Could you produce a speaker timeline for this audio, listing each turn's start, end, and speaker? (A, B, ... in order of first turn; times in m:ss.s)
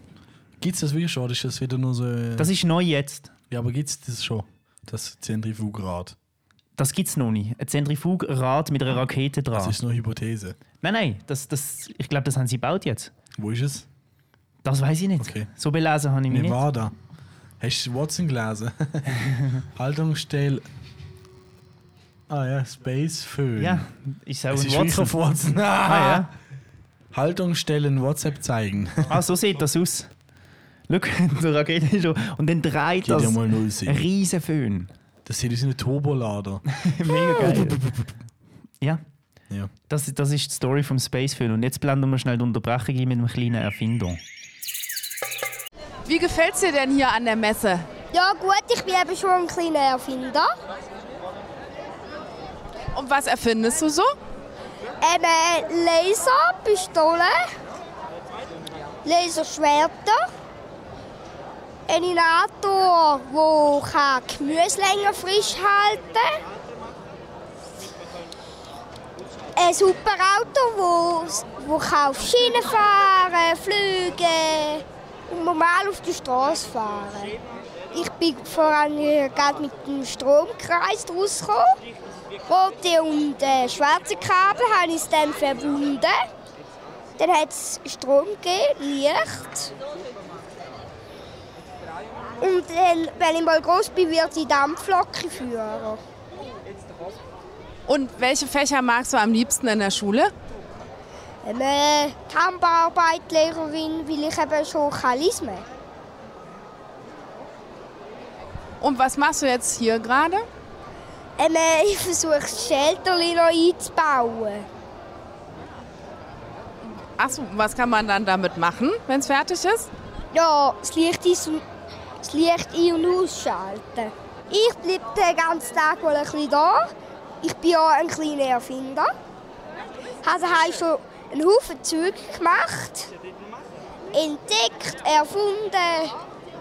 0:00.6-0:02.5 A
0:02.4-0:03.3 B
0:03.5-0:06.2 A
0:06.8-0:09.8 B
0:09.5-0:10.6 A
0:10.8-0:13.1 B
0:13.4-0:13.8 A
0:14.6-0:16.6 B
0:15.2-0:15.5 A
0:16.3-0:16.9 A
0:17.6-0:20.6 A
0:22.3-0:23.8 A
0:23.6-0:25.1 B
0:24.5-0:26.3 A
0:25.8-0:26.3 B
0:27.1-0:29.1 A
0:29.1-0:30.1 B
0:30.9-0:34.9 B
0:33.0-0:34.0 A
0:35.2-0:38.1 A
0:36.7-0:37.8 B
0:39.9-0:44.2 B
0:46.0-0:47.8 C
0:48.1-0:50.5 D
0:52.9-0:54.1 C
0:55.0-0:57.4 D
0:59.0-1:00.2 D
1:01.9-1:06.4 D
1:09.6-1:17.4 D
1:17.9-1:21.8 D
1:22.5-1:26.2 D
1:27.2-1:29.7 D
1:32.4-1:36.0 D
1:37.9-1:40.3 C
1:41.4-1:45.6 D
1:48.8-1:50.4 C
1:51.4-1:54.6 D
1:57.2-1:59.9 C
2:00.3-2:01.6 D
2:02.2-2:06.9 D
2:07.4-2:09.1 D
2:10.2-2:13.1 D
2:14.1-2:16.1 D